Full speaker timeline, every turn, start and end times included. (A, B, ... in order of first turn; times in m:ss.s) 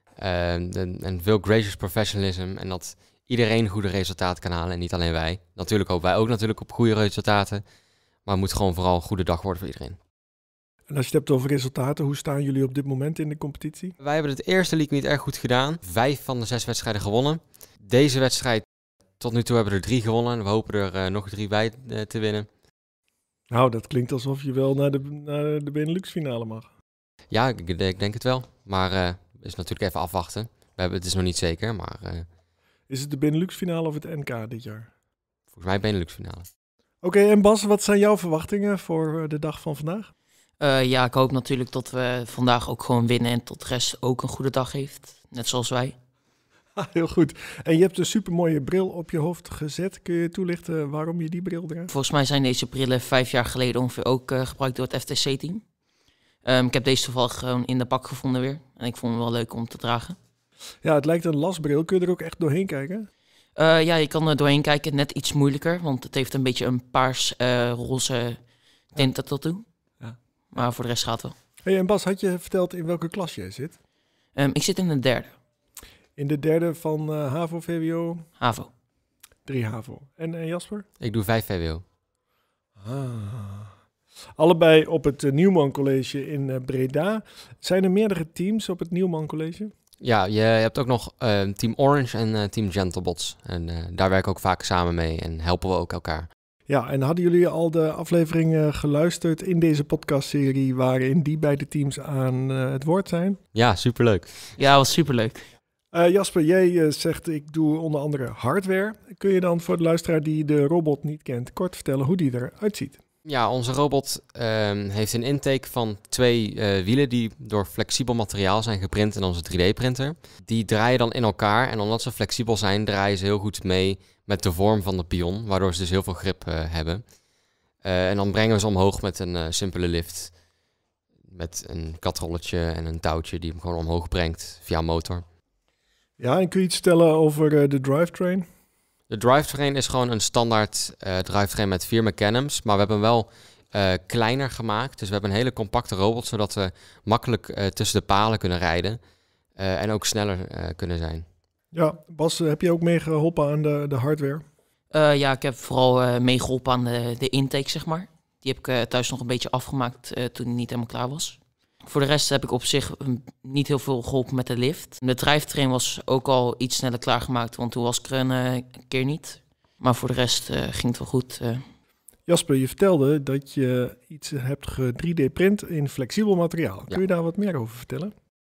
0:00.2-0:07.6 A
0:08.2-0:10.0 A
0:10.9-0:13.9 B
0:14.0-0:18.6 A
0:19.2-0:22.5 A
0:23.5-0:26.7 B
0:27.3-0:32.2 A
0:32.9-0:34.9 B
0:35.5-0:36.5 A
0:37.0-0:40.1 B
0:40.6-0:45.9 C
0:46.8-0:51.9 B
0:51.9-0:55.6 C
0:56.4-1:00.2 C
1:00.8-1:03.1 B
1:03.6-1:08.4 C
1:08.9-1:09.6 C
1:10.5-1:11.3 C
1:11.6-1:13.7 B
1:14.3-1:15.4 C
1:16.2-1:18.2 B
1:18.4-1:18.7 C
1:19.4-1:20.8 B
1:21.0-1:21.8 A
1:22.8-1:23.7 B
1:24.4-1:29.7 B
1:30.0-1:36.3 A
1:36.7-1:43.4 B
1:43.5-1:44.6 A
1:44.6-1:45.5 C
1:45.9-1:53.0 B
1:53.2-2:07.0 A
2:07.8-2:10.4 A
2:11.3-2:15.2 A
2:16.2-2:18.4 B
2:19.1-2:29.0 A
2:29.6-2:31.2 A
2:31.7-2:34.4 B
2:34.9-2:51.6 C
2:52.3-2:58.1 B